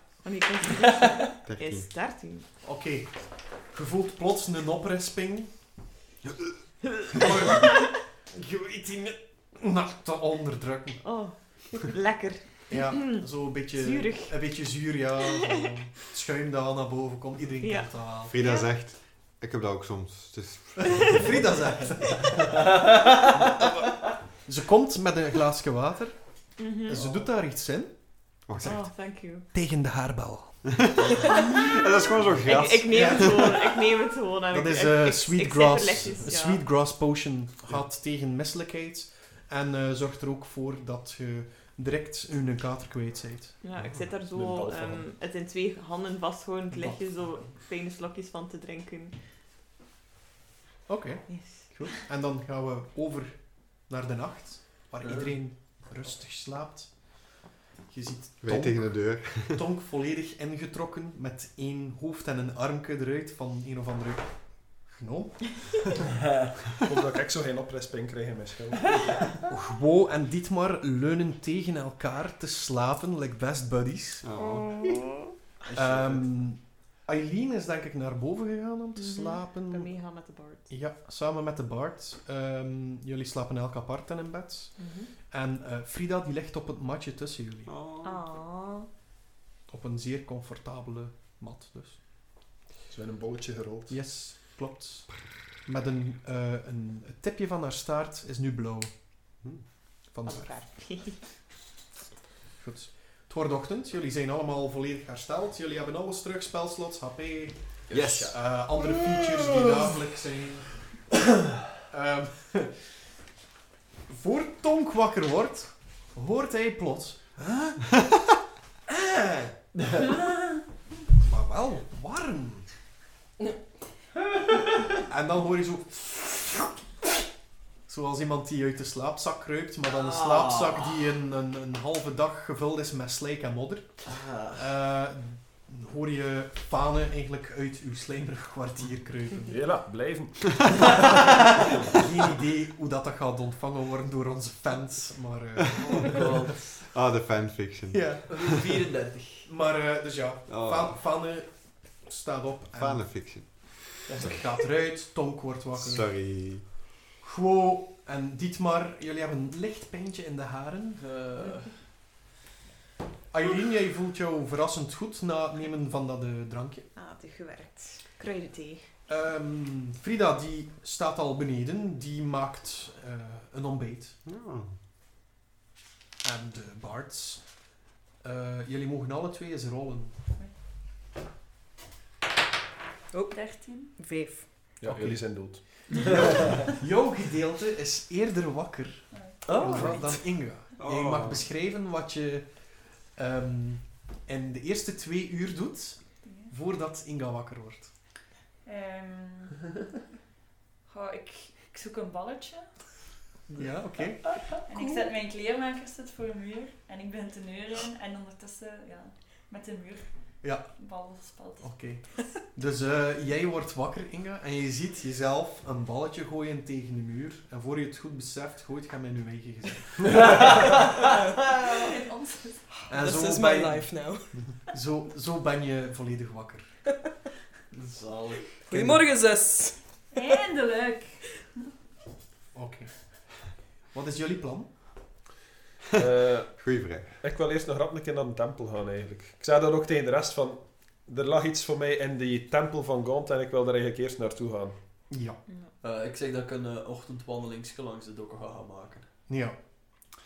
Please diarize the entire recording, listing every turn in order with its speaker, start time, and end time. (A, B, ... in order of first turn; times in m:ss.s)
0:00.2-0:02.5 A
0:01.5-0:01.9 B
0:02.6-0:05.5 C
0:07.2-0:07.7 C
0:08.3-0:11.0 C
0:11.0-0:13.2 A
0:12.7-0:18.3 C
0:13.7-0:14.4 A
0:17.6-0:18.7 A
0:18.3-0:21.2 B
0:20.9-0:22.6 C
0:22.5-0:23.2 D
0:24.4-0:27.9 C
0:26.6-0:27.0 A
0:28.4-0:28.8 B
0:28.5-0:28.8 C
0:28.6-0:29.5 A
0:29.5-0:30.6 C
0:30.8-0:33.5 B
0:31.4-0:31.7 A
0:32.4-0:36.6 A
0:32.8-0:33.5 C
0:34.5-0:43.6 C
0:43.6-0:49.2 A
0:43.8-0:44.0 B
0:44.3-0:45.0 E
0:46.7-0:47.0 C
0:50.9-0:57.1 C
0:51.3-0:51.8 A
0:55.0-0:55.3 D
0:57.9-1:05.8 C
0:58.4-0:59.6 B
1:06.8-1:08.9 E
1:09.4-1:14.3 C
1:14.2-1:15.0 B
1:14.4-1:15.2 A
1:15.7-1:19.9 C
1:19.0-1:20.7 A
1:20.7-1:27.7 C
1:24.8-1:25.1 A
1:27.7-1:28.2 B
1:28.0-1:28.9 A
1:29.7-1:32.0 C
1:32.9-1:34.0 E
1:33.9-1:38.9 C
1:40.1-1:40.5 C
1:40.2-1:41.2 A
1:42.6-1:50.8 C
1:47.9-1:48.3 E
1:47.9-1:48.3 D
1:51.9-1:52.9 C
1:54.1-1:57.7 C
2:01.2-2:02.7 C
2:05.1-2:06.6 C
2:07.9-2:19.6 C
2:09.9-2:11.0 D
2:14.0-2:14.6 D
2:19.5-2:20.9 E
2:21.9-2:26.3 C
2:25.8-2:26.8 D
2:26.7-2:28.4 B
2:27.9-2:28.2 C
2:28.3-2:29.5 D
2:29.4-2:33.1 C
2:30.5-2:31.0 B
2:32.8-2:34.3 B
2:34.1-2:34.4 D
2:34.2-2:41.0 C
2:35.8-2:36.7 B
2:41.0-2:41.8 D
2:43.3-2:46.9 C
2:46.9-2:48.9 A
2:49.1-2:54.2 C
2:54.2-2:54.7 B
2:56.2-2:57.6 C
2:58.2-3:00.2 C
3:03.1-3:03.4 F
3:03.3-3:04.0 G
3:04.0-3:04.5 F
3:04.8-3:05.8 E
3:04.8-3:17.9 C
3:09.1-3:09.4 G
3:09.4-3:10.2 D
3:10.8-3:11.4 B
3:16.2-3:16.5 G
3:18.6-3:19.6 G
3:20.9-3:22.7 G
3:23.6-3:24.3 C
3:24.5-3:31.9 G
3:30.4-3:30.7 C
3:31.6-3:40.3 C
3:40.2-3:40.7 D
3:41.5-3:42.7 G
3:42.8-3:44.5 F
3:42.9-3:46.8 C
3:47.7-3:48.6 D
3:48.6-3:50.2 F
3:50.1-3:51.2 G
3:52.5-3:54.7 C
3:56.0-4:04.8 E
3:56.6-3:57.1 B
4:05.1-4:05.4 C
4:05.5-4:05.7 A
4:05.8-4:09.1 D
4:09.3-4:09.6 C